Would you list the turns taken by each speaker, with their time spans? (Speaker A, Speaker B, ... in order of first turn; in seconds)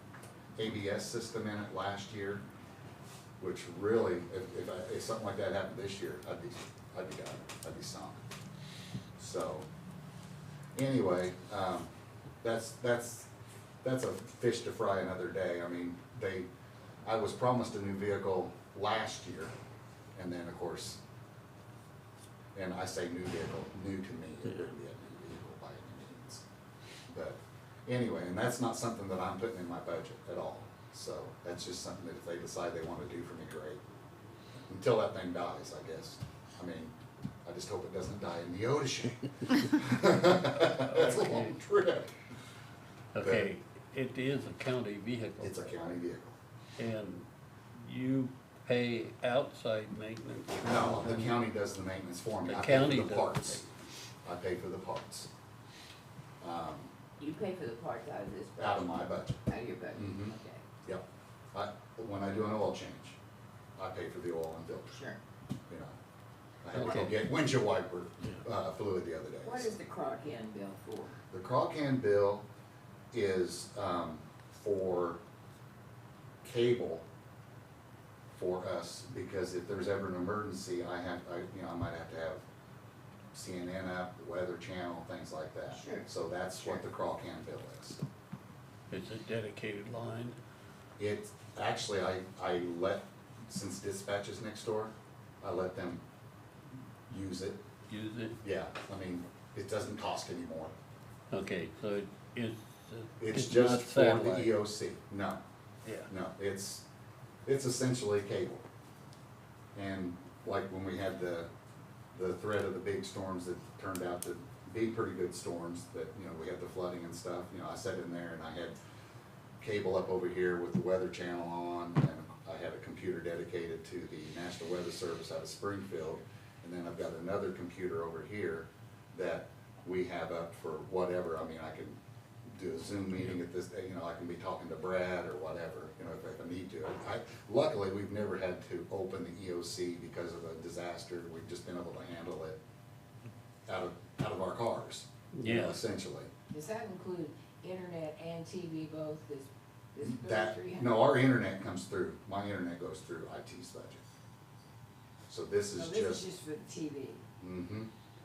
Speaker A: 0.6-2.4, 3.4-8.2, 9.2-9.7, 10.8-11.9, 12.4-13.3, 13.8-16.5, 17.1-19.5, 20.1-21.0, 22.6-26.4, 27.1-33.8, 34.7-36.9, 37.5-42.1, 43.2-43.5, 45.4-46.3, 50.6-53.7, 54.2-55.3, 56.4-56.9, 58.6-59.4, 60.0-63.2, 63.8-65.0, 65.7-66.0, 66.6-69.7, 71.3-72.5, 73.1-75.2, 76.4-77.0, 78.3-82.4, 83.3-88.0, 91.0-96.0, 97.1-97.6, 98.4-100.7, 103.2-105.4, 106.1-106.8, 107.5-108.6, 109.8-111.5, 112.1-118.8, 119.6-132.0, 132.5-142.6, 143.7-146.3, 150.0-154.0, 155.3-156.3, 157.4-157.9
Speaker B: 40.5-41.6, 43.1-46.0, 46.8-47.2, 47.8-51.4, 52.5-53.7, 66.7-67.2, 88.9-90.4, 97.9-98.4, 101.3-104.6, 145.3-145.8
Speaker C: 57.2-60.7, 64.9-65.2, 69.4-71.2, 85.7-86.1, 146.5-151.0, 155.8-157.2